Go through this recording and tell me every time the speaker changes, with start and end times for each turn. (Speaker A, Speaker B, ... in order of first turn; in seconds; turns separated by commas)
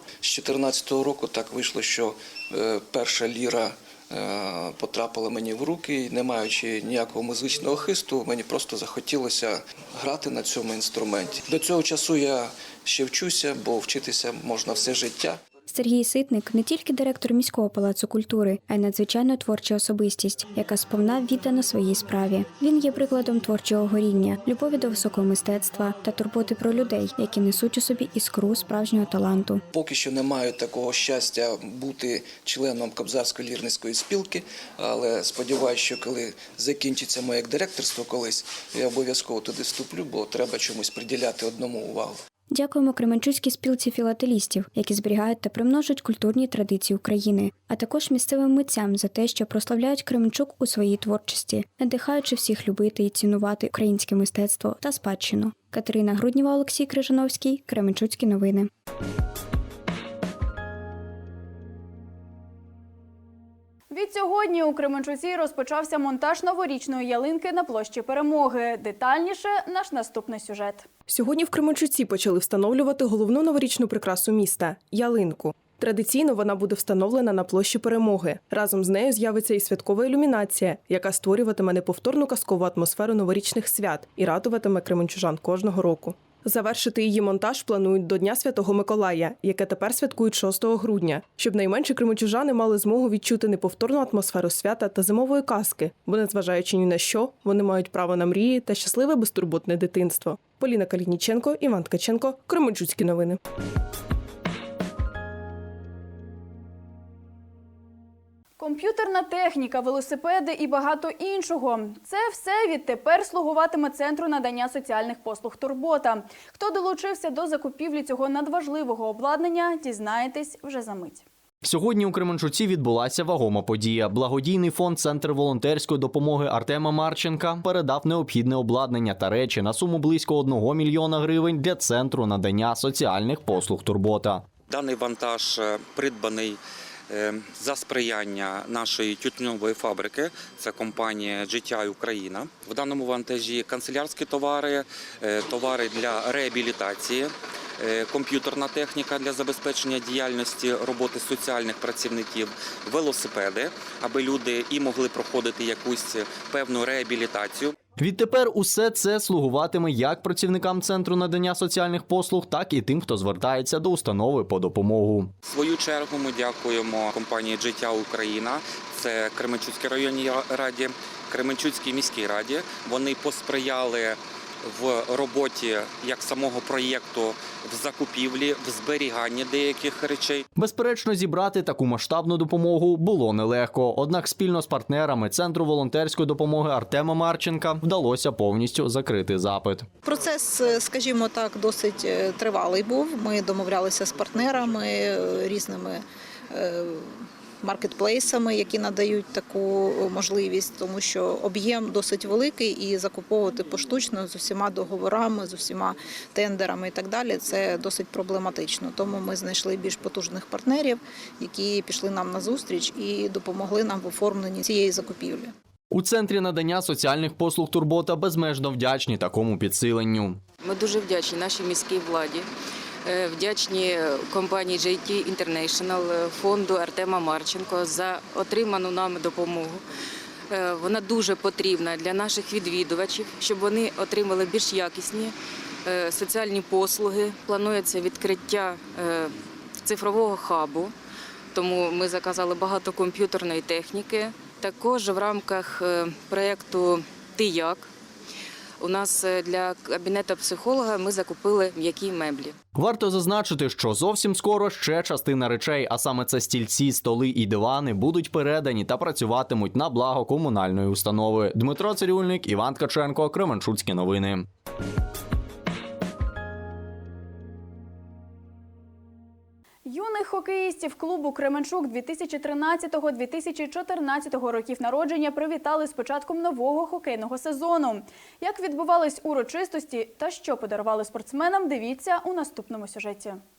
Speaker A: 0.2-15.4, Speaker B: 15.7-29.6, Speaker A: 29.7-42.2, Speaker B: 42.5-58.7, Speaker C: 63.9-70.9, Speaker D: 71.1-103.4, Speaker C: 108.6-121.2, Speaker E: 121.6-134.4, Speaker F: 134.7-157.7, Speaker E: 158.0-165.3, Speaker F: 165.4-180.4, Speaker E: 180.6-189.9, Speaker G: 190.0-215.5, Speaker E: 215.9-220.4, Speaker H: 220.6-222.5, Speaker H: 223.0-229.8, Speaker H: 230.5-240.9, Speaker H: 241.5-247.9, Speaker H: 248.8-252.6, Speaker E: 252.7-264.4, Speaker C: 269.9-283.4